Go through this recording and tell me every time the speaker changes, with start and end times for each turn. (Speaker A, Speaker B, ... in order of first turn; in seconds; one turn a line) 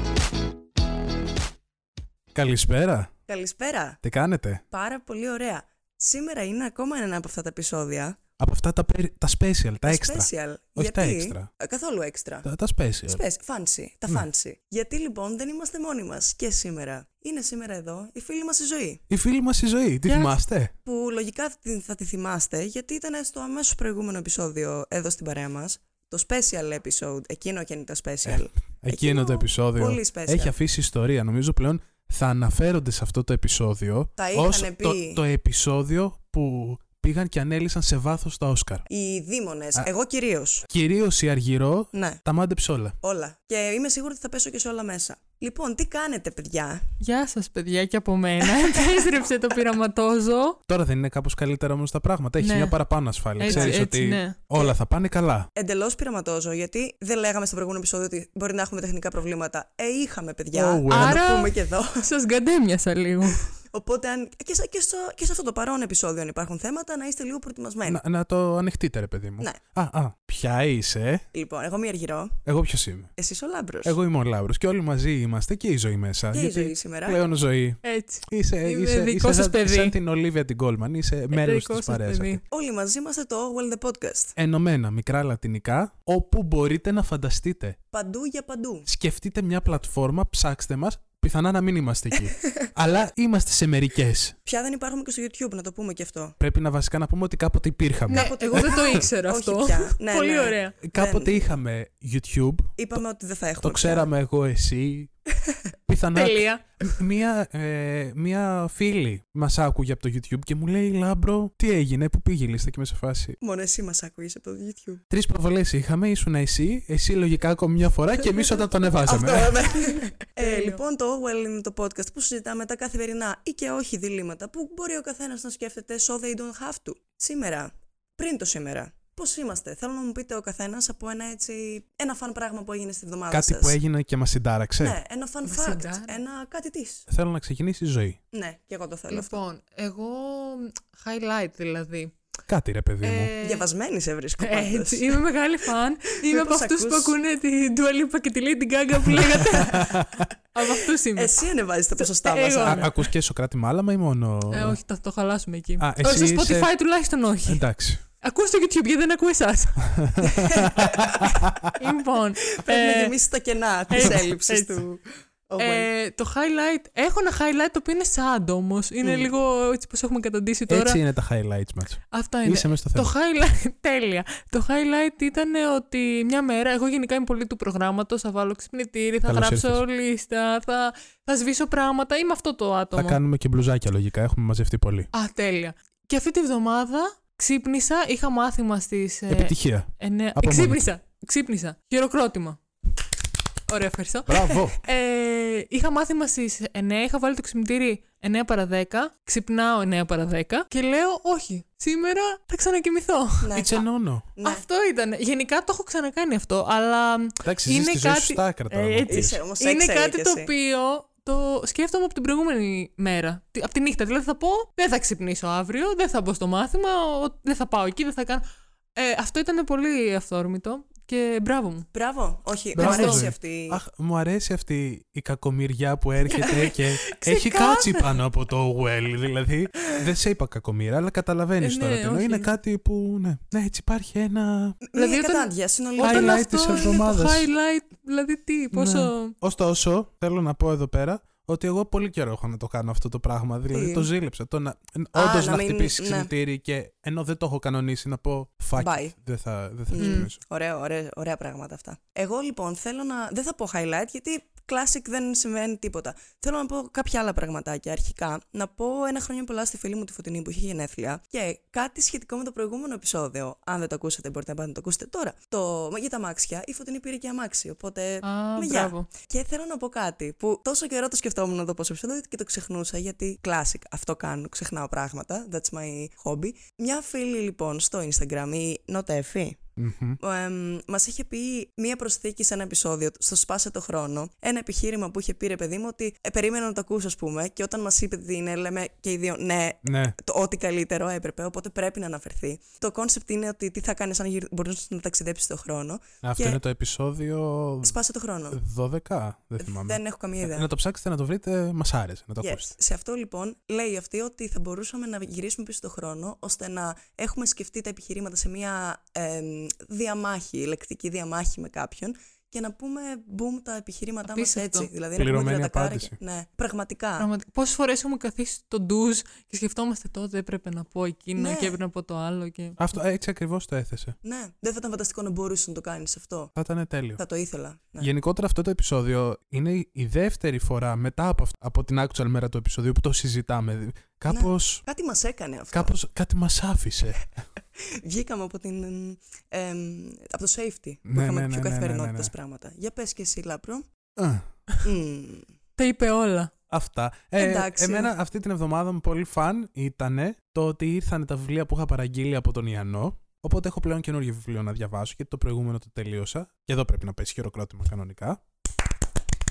Speaker A: 2.3-3.1
Speaker B: 3.3-4.0
Speaker A: 4.0-4.6
Speaker B: 4.7-8.2
Speaker A: 8.4-11.5
Speaker B: 9.8-12.5
Speaker A: 12.4-13.2
Speaker B: 13.1-19.0
Speaker A: 19.1-20.7
Speaker B: 20.9-30.5
Speaker A: 28.2-38.9
Speaker B: 34.2-35.2
Speaker B: 38.9-40.6
Speaker A: 40.7-43.0
Speaker B: 41.9-42.2
Speaker B: 43.0-46.8
Speaker C: 47.0-50.6
Speaker B: 48.5-48.9
Speaker A: 50.7-55.5
Speaker C: 52.4-52.8
Speaker C: 53.4-54.4
Speaker B: 53.5-53.8
Speaker B: 55.5-62.0
Speaker A: 60.5-61.2
Speaker C: 60.9-63.5
Speaker B: 63.7-68.0
Speaker A: 67.8-71.2
Speaker B: 71.3-72.4
Speaker A: 72.4-73.1
Speaker B: 73.2-74.0
Speaker A: 73.8-82.4
Speaker B: 76.3-77.2
Speaker C: 77.8-79.9
Speaker C: 81.3-82.4
Speaker B: 82.5-84.3
Speaker A: 84.3-87.8
Speaker B: 87.9-88.9
Speaker A: 88.8-94.3
Speaker B: 94.5-96.3
Speaker A: 96.4-98.8
Speaker C: 98.1-100.8
Speaker B: 98.1-101.5
Speaker A: 100.8-102.8
Speaker B: 102.8-104.1
Speaker A: 103.6-105.1
Speaker A: 105.9-113.4
Speaker C: 106.1-107.0
Speaker B: 113.4-115.0
Speaker A: 115.1-119.6
Speaker B: 119.0-133.8
Speaker C: 120.4-120.8
Speaker A: 133.3-135.0
Speaker B: 134.8-137.1
Speaker C: 135.4-136.2
Speaker A: 137.1-138.2
Speaker B: 138.3-139.4
Speaker C: 139.1-142.1
Speaker A: 142.5-143.3
Speaker C: 143.0-143.7
Speaker B: 143.4-145.2
Speaker C: 144.4-151.4
Speaker B: 146.2-147.2
Speaker A: 149.4-150.3
Speaker B: 149.4-149.8
Speaker B: 150.7-152.9
Speaker C: 152.0-153.0
Speaker A: 152.6-154.8
Speaker C: 154.5-157.6
Speaker A: 155.8-156.7
Speaker A: 157.5-158.0
Speaker C: 158.2-159.9
Speaker A: 159.8-161.7
Speaker B: 160.2-161.8
Speaker C: 161.7-163.2
Speaker B: 162.5-165.9
Speaker C: 163.9-164.8
Speaker C: 165.6-171.0
Speaker A: 169.0-169.3
Speaker A: 170.7-173.1
Speaker C: 172.1-183.2
Speaker A: 179.2-179.8
Speaker A: 182.9-185.1
Speaker C: 185.1-192.6
Speaker A: 189.3-190.8
Speaker C: 193.7-203.6
Speaker A: 194.2-194.8
Speaker B: 203.4-203.8
Speaker A: 203.5-204.3
Speaker B: 204.3-204.6
Speaker C: 204.4-218.4
Speaker A: 207.4-209.4
Speaker B: 209.1-210.5
Speaker C: 218.9-221.9
Speaker B: 221.9-223.8
Speaker C: 222.8-223.2
Speaker A: 222.8-234.8
Speaker C: 226.3-228.2
Speaker C: 231.6-232.5
Speaker B: 234.8-236.9
Speaker C: 234.9-239.3
Speaker A: 236.0-237.4
Speaker A: 238.7-250.4
Speaker B: 243.7-244.1
Speaker B: 245.1-246.3
Speaker B: 248.8-249.1
Speaker B: 249.9-279.6
Speaker C: 250.0-250.3
Speaker C: 268.2-269.1
Speaker A: 279.8-280.2
Speaker B: 280.2-296.6
Speaker A: 289.8-290.2
Speaker A: 296.2-298.0
Speaker B: 297.8-298.6
Speaker A: 298.5-302.7
Speaker B: 299.6-300.7
Speaker B: 302.4-317.3
Speaker C: 314.2-314.9
Speaker A: 315.1-316.1
Speaker C: 317.2-322.8
Speaker B: 321.4-321.8
Speaker A: 322.8-324.1
Speaker B: 324.2-326.5
Speaker A: 326.5-327.2
Speaker B: 327.2-328.1
Speaker A: 328.0-334.8
Speaker B: 334.3-335.9
Speaker A: 335.7-337.3
Speaker B: 337.8-343.9
Speaker A: 341.1-342.3
Speaker A: 344.2-344.5
Speaker B: 344.8-345.5
Speaker C: 345.8-346.5
Speaker A: 346.7-358.4
Speaker B: 347.4-348.1